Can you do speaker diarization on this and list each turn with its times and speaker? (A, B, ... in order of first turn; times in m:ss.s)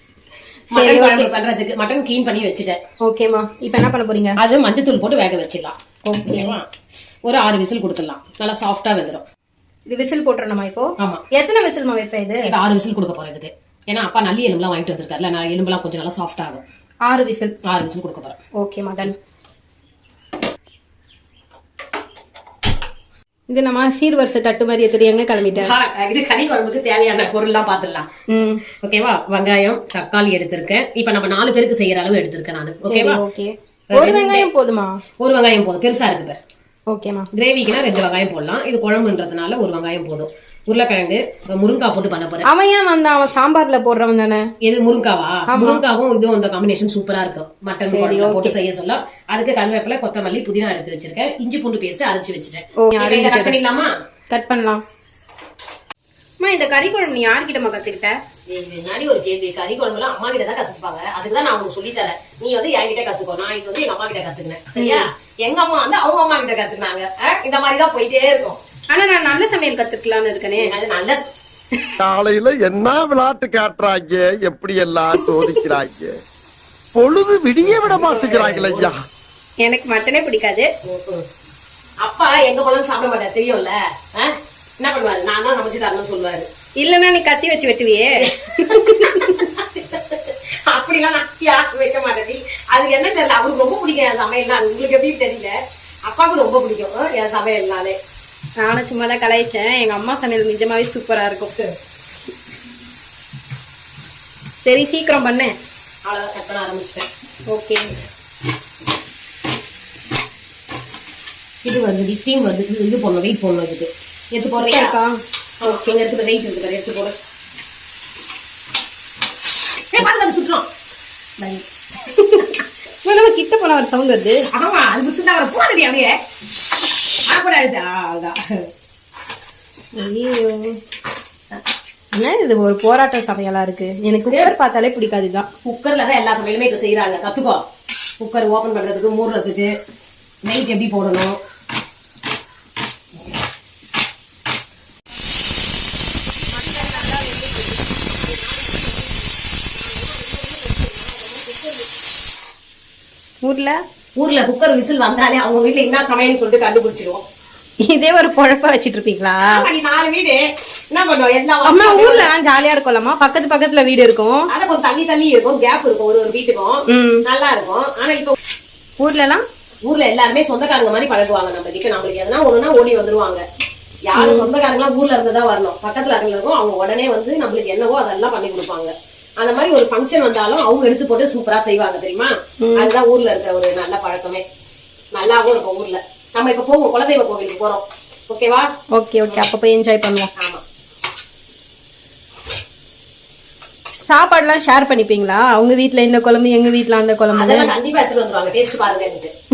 0:00.7-0:02.8 A
0:00.7-0:01.3 B
0:03.0-0:04.4 B
0:04.4-0:05.8 A
0:06.0-0:06.6 B
0:06.3-0:06.6 A
0:07.3-0:09.2 A
0:09.9-0:12.5 B
0:12.4-0:16.6 A
0:17.0-0:17.5 B
0:17.6-0:18.4 A
0:18.6-0:19.1 B
0:23.5-0:25.7 B
0:25.4-0:28.1 A
0:28.3-0:28.6 B
0:28.8-0:33.2 A
0:32.8-0:35.0 B
0:33.9-0:34.5 A
0:35.2-0:36.4 A
0:36.9-0:37.3 B
0:37.3-0:42.4 A
0:42.4-0:44.5 B
0:44.6-0:53.9 A
0:45.5-0:45.8 B
0:47.9-0:48.5 B
0:52.8-0:53.6 B
0:54.3-0:54.8 B
0:56.4-0:58.2 B
0:58.5-1:08.6 A
1:04.8-1:05.1 B
1:08.9-1:10.8 B
1:10.6-1:11.2 A
1:12.0-1:16.1 C
1:16.9-1:19.0 C
1:17.6-1:18.9 A
1:19.6-1:20.7 B
1:20.8-1:21.2 A
1:22.0-1:26.5 A
1:26.8-1:29.4 B
1:28.2-1:35.5 A
1:36.1-1:38.0 A
1:38.6-1:41.5 B
1:44.6-1:45.5 B
1:46.1-1:47.1 A
1:47.5-1:47.9 B
1:51.6-1:54.9 A
1:54.6-1:55.1 B
1:55.6-1:57.1 A
1:55.6-1:55.9 B
1:59.9-2:00.6 A
2:02.1-2:02.5 B
2:03.0-2:04.4 B
2:04.5-2:06.1 A
2:07.3-2:08.4 A
2:10.0-2:10.8 B
2:12.1-2:15.5 B
2:15.6-2:17.6 A
2:18.2-2:19.7 A
2:20.4-2:21.4 A
2:26.4-2:32.0 A
2:26.5-2:27.6 B
2:33.4-2:33.8 B
2:34.2-2:37.2 A
2:37.8-2:39.6 B
2:39.4-2:42.3 A
2:41.6-2:44.5 B
2:44.5-2:48.3 A
2:46.9-2:47.2 B
2:49.0-2:49.4 B
2:49.9-2:53.4 A
2:54.1-3:04.4 A
2:54.1-2:54.5 B
3:02.6-3:02.9 B
3:05.1-3:08.7 A
3:08.9-3:10.3 B
3:10.4-3:10.6 A
3:14.1-3:17.7 B
3:17.3-3:19.3 A